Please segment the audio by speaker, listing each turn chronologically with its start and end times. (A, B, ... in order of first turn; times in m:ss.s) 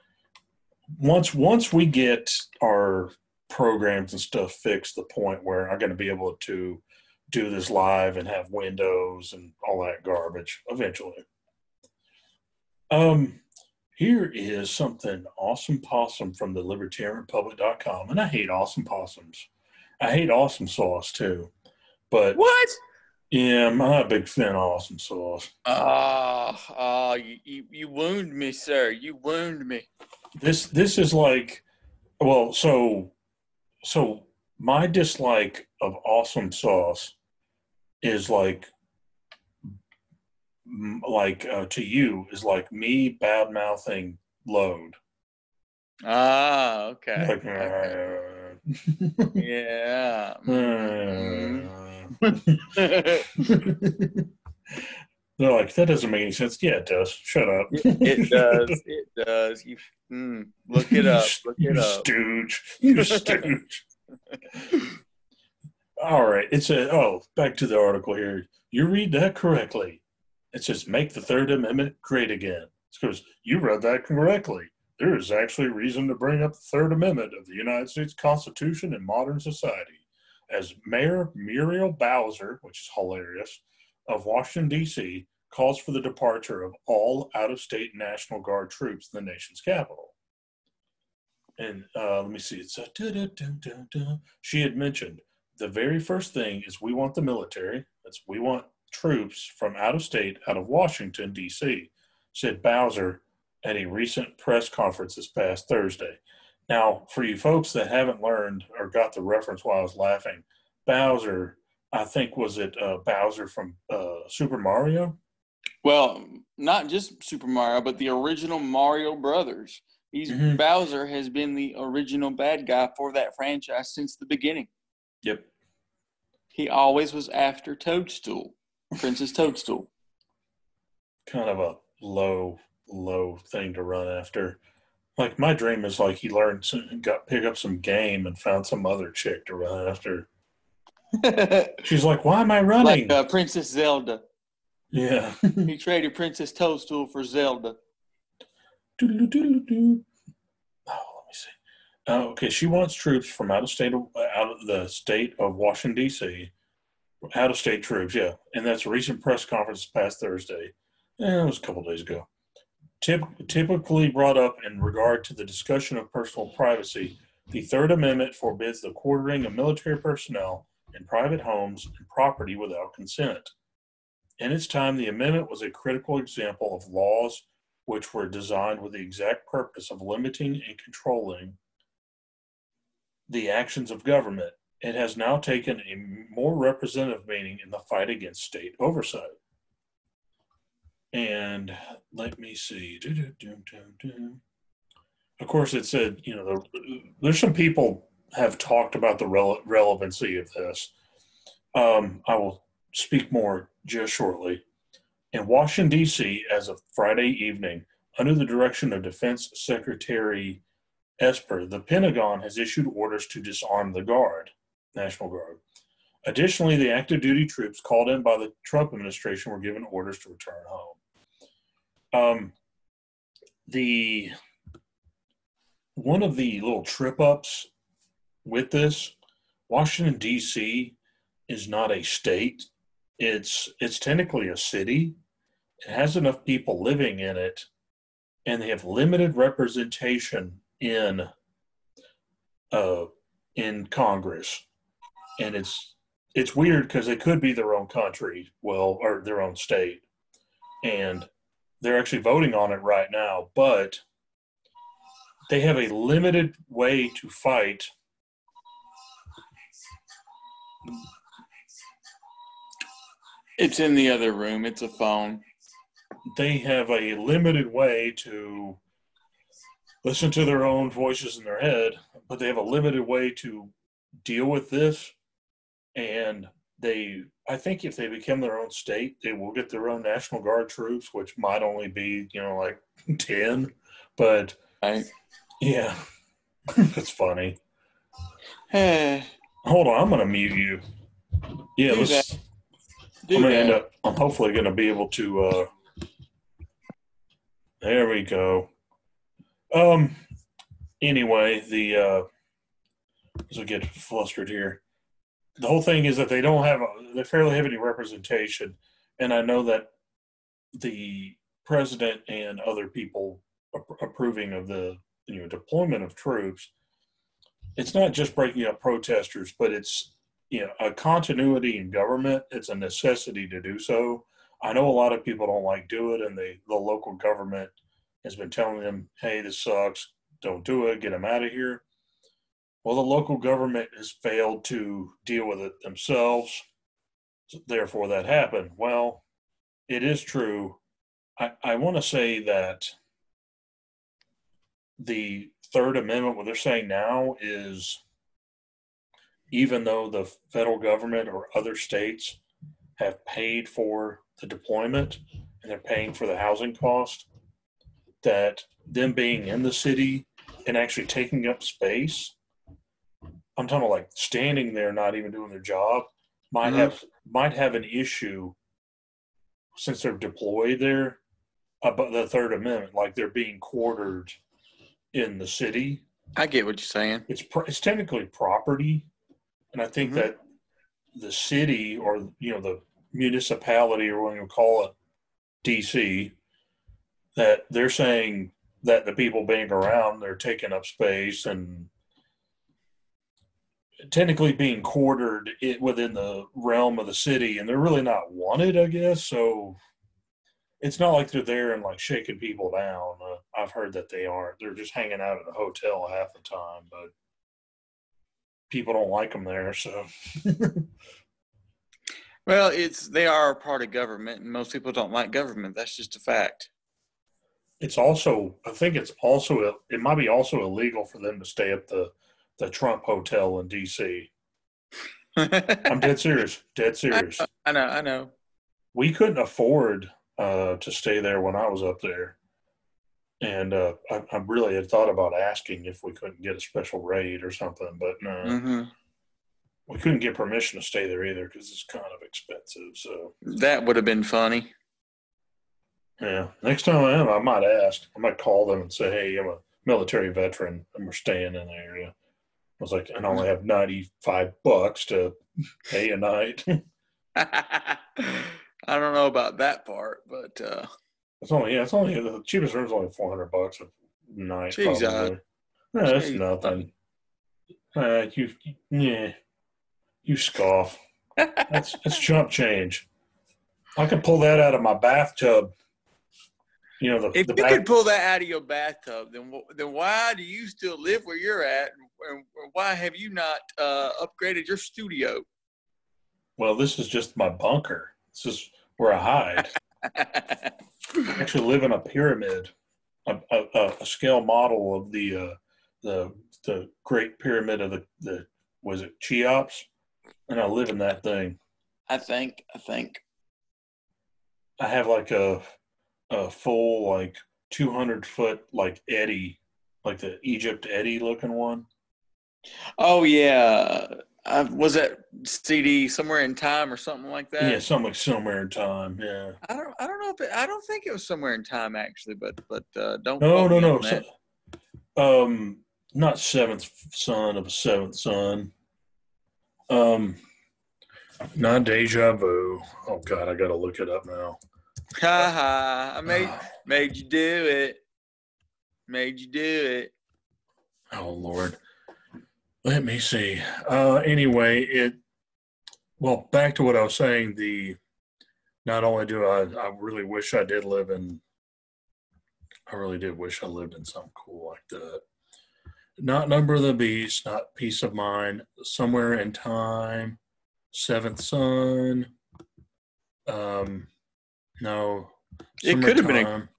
0:01.0-0:11.2 A
0:12.9-0:13.4 A
0:14.0-0:19.5 A
0:20.0-0:21.5 A
0:22.1-0:22.4 A
0:22.3-0:22.8 B
0:23.3-0:25.5 A
0:25.6-0:29.9 B
0:30.4-0:31.6 A
0:32.2-0:33.1 A
0:33.8-0:37.1 A
0:38.0-0:38.7 A
0:40.6-0:45.0 A
0:46.0-0:48.0 B
0:47.2-0:49.4 A
0:49.4-0:53.5 B
0:50.5-0:52.7 A
0:53.4-0:54.8 A
0:55.4-0:58.7 A
0:57.7-1:02.1 B
1:00.8-1:03.8 A
1:03.0-1:03.5 B
1:06.0-1:30.1 A
1:31.6-1:55.2 A
1:55.8-2:04.7 B
2:00.3-2:00.6 A
2:05.2-2:05.5 A
2:06.5-2:09.9 B
2:11.2-2:14.6 A
2:15.2-2:20.3 A
2:21.2-2:21.8 B
2:21.8-2:23.2 A
2:22.8-2:24.2 B
2:24.9-2:25.7 A
2:25.6-2:27.8 B
2:29.0-2:30.0 A
2:30.9-2:36.5 A
2:37.3-2:42.3 A
2:43.0-2:53.5 A
2:54.4-3:01.6 A
3:03.3-3:09.3 A
3:11.1-3:14.4 A
3:15.4-3:20.9 A
3:21.7-3:24.6 A
3:25.3-3:30.6 A
3:31.2-3:35.6 A
3:36.2-3:41.0 A
3:42.1-3:42.5 A
3:43.7-3:44.3 A
3:45.9-3:47.7 A
3:48.4-3:49.1 A
3:49.7-3:51.0 A
3:51.5-3:52.7 A
3:53.2-3:55.2 A
3:55.8-3:57.7 A
3:58.4-4:01.3 A
4:02.7-4:04.6 A
4:05.4-4:10.0 A
4:10.8-4:14.0 A
4:15.5-4:17.9 A
4:23.6-4:25.4 B
4:26.3-4:28.8 A
4:30.0-4:35.1 A
4:35.9-4:44.6 A
4:44.8-4:45.1 B
4:45.6-4:46.0 A
4:46.7-4:47.6 A
4:48.7-4:49.3 B
4:49.6-4:50.8 A
4:51.8-4:52.4 A
4:51.9-4:52.3 B
4:53.3-4:53.8 B
4:53.3-4:55.7 A
4:57.8-4:58.7 A
4:59.7-5:00.2 A
5:01.0-5:02.2 A
5:03.5-5:04.8 A
5:05.6-5:09.9 A
5:10.8-5:16.7 A
5:17.8-5:31.8 A
5:32.8-5:36.6 A
5:37.5-5:39.2 A
5:39.9-5:40.8 A
5:41.4-5:42.9 A
5:45.0-5:48.0 A
5:49.5-5:52.4 A
5:53.0-5:57.3 A
5:58.2-6:02.3 A
6:03.6-6:08.6 A
6:06.6-6:06.9 B
6:09.8-6:11.2 A
6:11.8-6:14.4 A
6:15.1-6:16.0 A
6:16.4-6:17.2 B
6:17.3-6:19.1 A
6:19.7-6:20.4 A
6:20.0-6:20.3 B
6:21.1-6:24.9 A
6:25.6-6:26.4 A
6:27.4-6:31.9 A
6:34.0-6:39.8 A
6:40.8-6:47.1 A
6:48.7-6:50.9 A
6:52.5-6:56.7 B
6:57.8-7:04.3 A
7:05.4-7:06.1 B
7:05.8-7:07.4 A
7:07.1-7:08.3 B
7:08.9-7:12.3 A
7:13.4-7:18.6 A
7:18.4-7:18.9 B
7:19.9-7:23.3 A
7:23.4-7:24.7 B
7:26.2-7:32.1 A
7:32.8-7:36.8 A
7:37.4-7:40.9 B
7:41.4-7:45.4 A
7:44.7-7:45.3 B
7:45.9-7:46.9 A
7:46.0-7:46.7 B
7:47.9-7:49.3 A
7:50.2-7:51.0 A
7:51.4-7:51.8 B
7:51.7-7:53.1 A
7:54.0-7:55.7 A
7:57.0-7:57.8 A
7:57.3-8:05.4 B
8:06.6-8:09.7 A
8:10.1-8:10.7 B
8:11.2-8:12.7 A
8:13.2-8:19.9 A
8:20.5-8:21.6 A
8:22.1-8:23.2 B
8:24.8-8:25.6 A
8:26.3-8:31.8 A
8:33.0-8:37.8 B
8:37.6-8:39.6 A
8:39.6-8:44.2 B
8:43.4-8:44.2 A
8:45.2-8:48.7 A
8:49.9-8:50.4 A
8:51.5-8:54.6 A
8:55.1-8:58.0 B
8:56.2-8:56.6 A
8:59.1-9:00.1 B
9:01.1-9:01.8 A
9:02.8-9:05.2 A
9:06.2-9:08.0 A
9:08.8-9:11.4 A
9:12.9-9:15.2 A
9:16.2-9:20.4 A
9:20.9-9:22.3 A
9:23.5-9:24.1 A
9:24.8-9:26.7 A
9:25.8-9:26.5 B